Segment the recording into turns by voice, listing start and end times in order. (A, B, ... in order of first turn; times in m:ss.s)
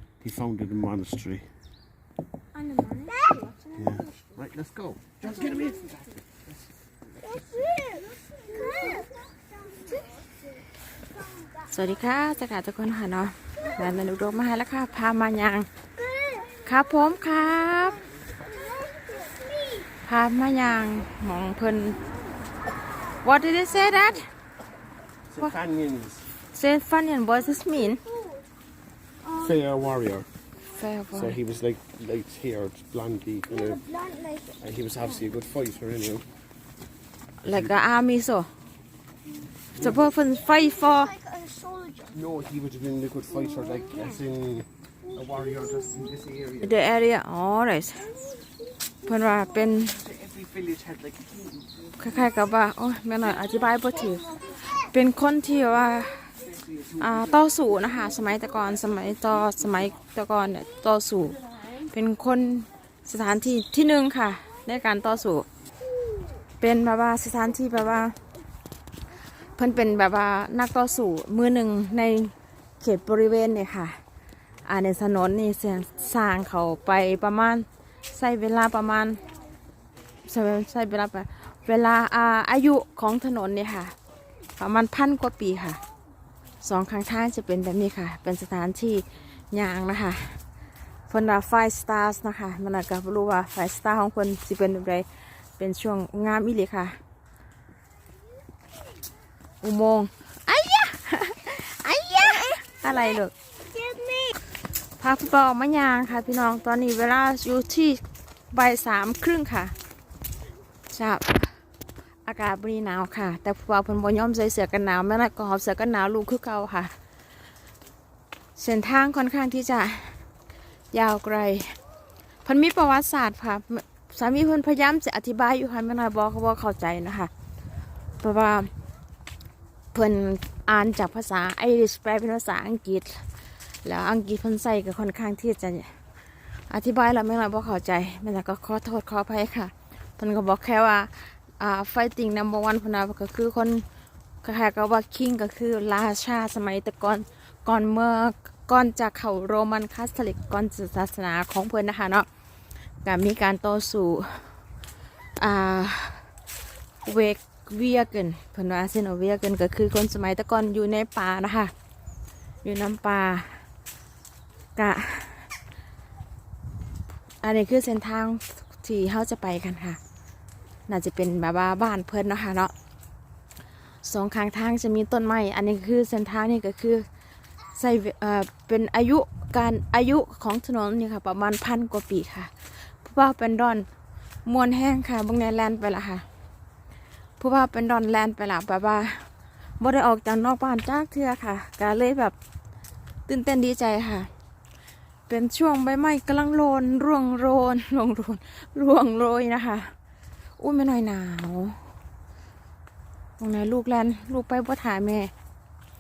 0:00.2-0:01.5 A
0:02.7-0:03.5 B
0:03.7-0:06.2 A
0:07.7-0:09.1 B
0:11.6-0:15.7 C
0:16.6-0:18.0 C
0:18.8-0:19.8 B
0:20.0-0:22.0 C
0:23.2-0:24.3 C
0:25.3-0:26.3 A
0:26.5-0:28.0 C
0:29.3-0:30.3 A
0:30.7-0:31.4 C
0:31.2-0:33.9 A
0:34.0-0:34.4 B
0:34.4-0:36.3 A
0:37.4-0:38.5 C
0:39.8-0:41.2 C
0:41.3-0:42.0 B
0:42.0-0:46.7 A
0:46.6-0:48.2 C
0:49.0-0:50.0 C
0:50.3-0:51.4 A
0:52.0-0:56.3 C
0:57.0-1:05.5 C
1:06.6-1:08.2 C
1:09.6-1:14.0 C
1:14.6-1:19.2 C
1:20.3-1:24.0 C
1:24.6-1:25.8 C
1:26.6-1:30.4 C
1:31.1-1:37.0 C
1:39.6-1:43.3 C
1:43.9-1:44.3 B
1:45.0-1:48.0 C
1:48.5-1:49.7 C
1:50.9-1:51.6 C
1:52.2-1:56.9 C
1:58.6-2:00.2 C
2:00.9-2:01.8 C
2:02.4-2:07.3 C
2:08.2-2:08.7 C
2:09.9-2:13.2 C
2:13.8-2:15.9 C
2:16.7-2:23.8 C
2:24.4-2:32.3 C
2:33.0-2:34.6 C
2:35.4-2:36.3 C
2:37.0-2:41.7 C
2:42.6-2:43.6 C
2:44.8-2:45.5 C
2:47.4-2:50.0 C
2:50.9-2:52.7 C
2:54.0-2:57.1 C
2:57.7-3:03.9 C
3:04.4-3:06.2 C
3:07.4-3:09.3 C
3:09.8-3:12.4 C
3:13.3-3:14.3 C
3:15.3-3:19.9 C
3:20.6-3:21.8 C
3:23.4-3:25.3 C